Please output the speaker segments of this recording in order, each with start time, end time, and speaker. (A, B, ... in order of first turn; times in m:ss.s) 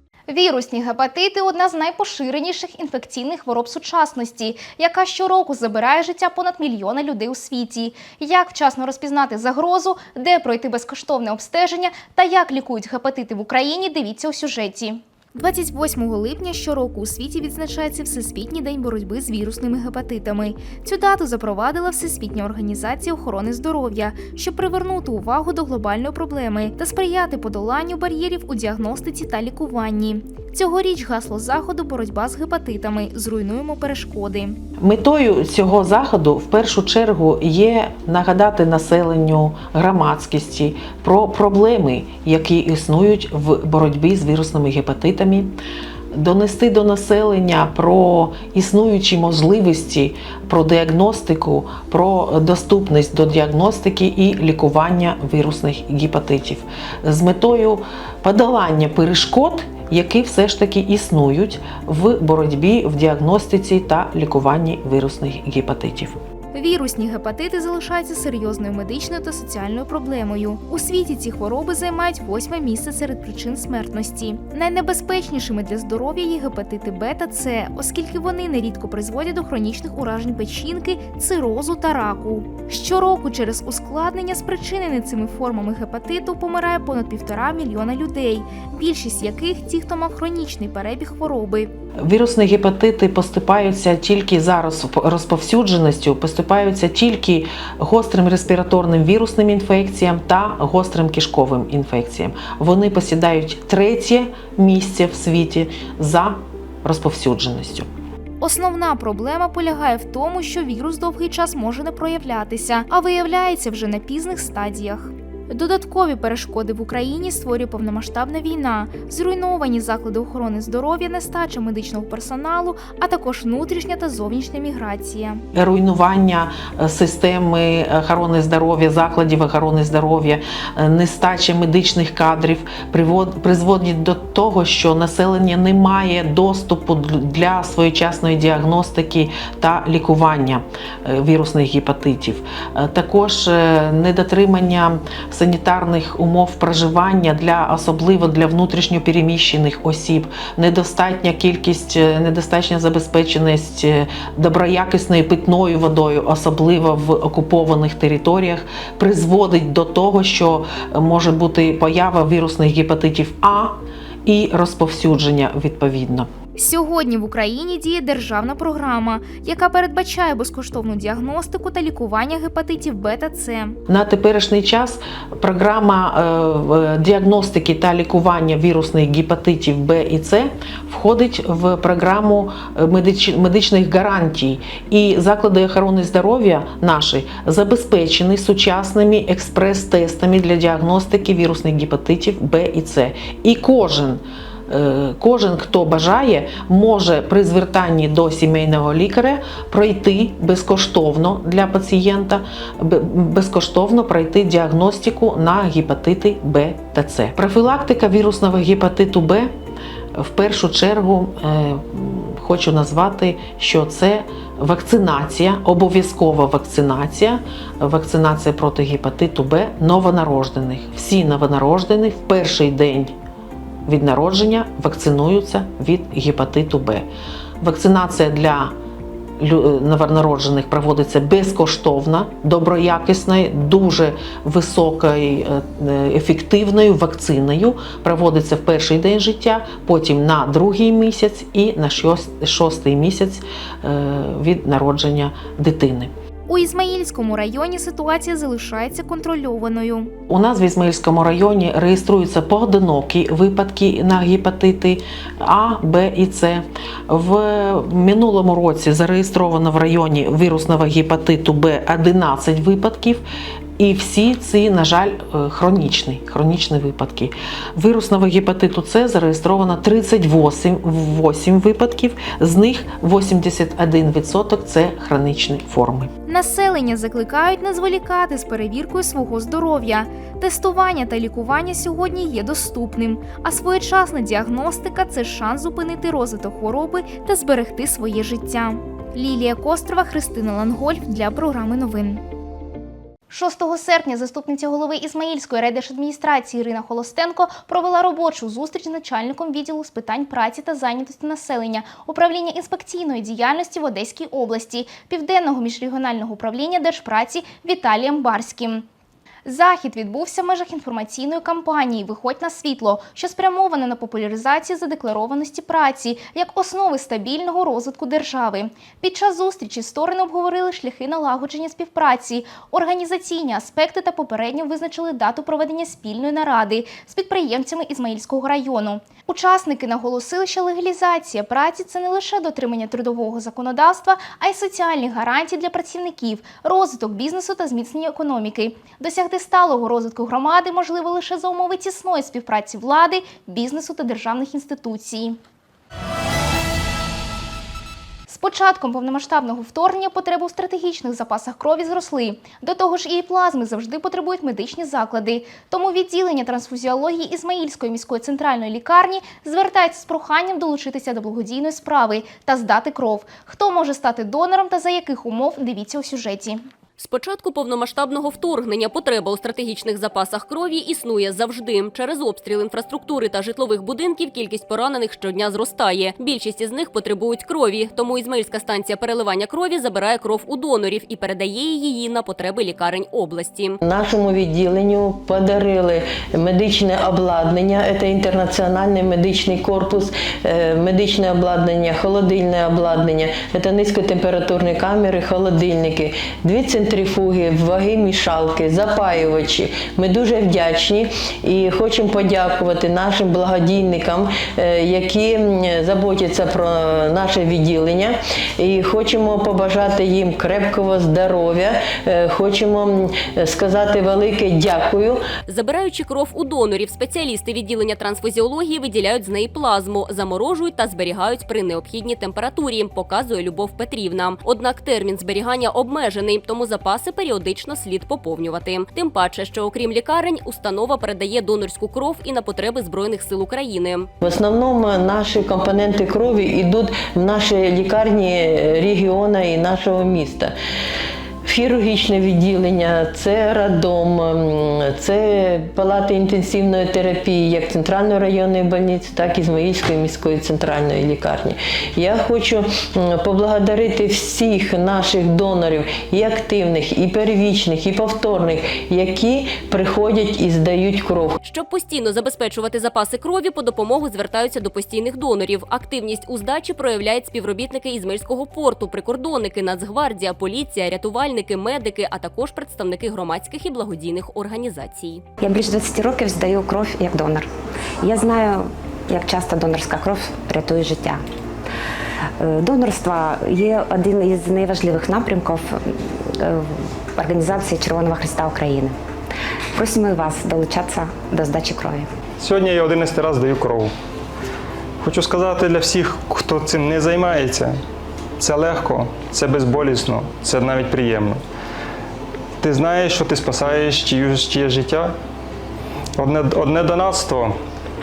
0:00.3-0:34.6 A
0:34.8-0:45.6 B
0:46.1-1:06.2 B
1:06.5-1:31.7 A
1:32.0-1:47.9 B
1:48.4-2:05.4 A
2:05.6-2:46.3 B
2:46.6-2:53.8 A
2:53.9-3:29.5 B
3:30.2-3:43.1 B
3:43.9-3:47.1 B
3:47.6-3:48.7 B
3:49.4-4:06.1 B
4:06.5-4:10.1 A
4:10.3-4:23.2 B
4:23.8-4:36.1 B
4:36.3-4:52.2 A
4:53.3-5:08.9 A
5:09.4-5:45.4 A
5:48.3-6:06.6 A
6:07.0-6:23.8 C
6:23.8-6:55.2 D
6:55.5-7:14.1 C
7:14.2-7:20.5 D
7:21.5-7:41.4 D
7:41.4-7:55.2 C
7:55.4-7:57.5 E
7:58.0-8:01.2 E
8:02.4-8:09.0 E
8:09.7-8:12.1 E
8:12.4-8:13.9 F
8:15.0-8:17.8 F
8:18.4-8:21.4 F
8:22.6-8:25.1 F
8:26.2-8:27.6 F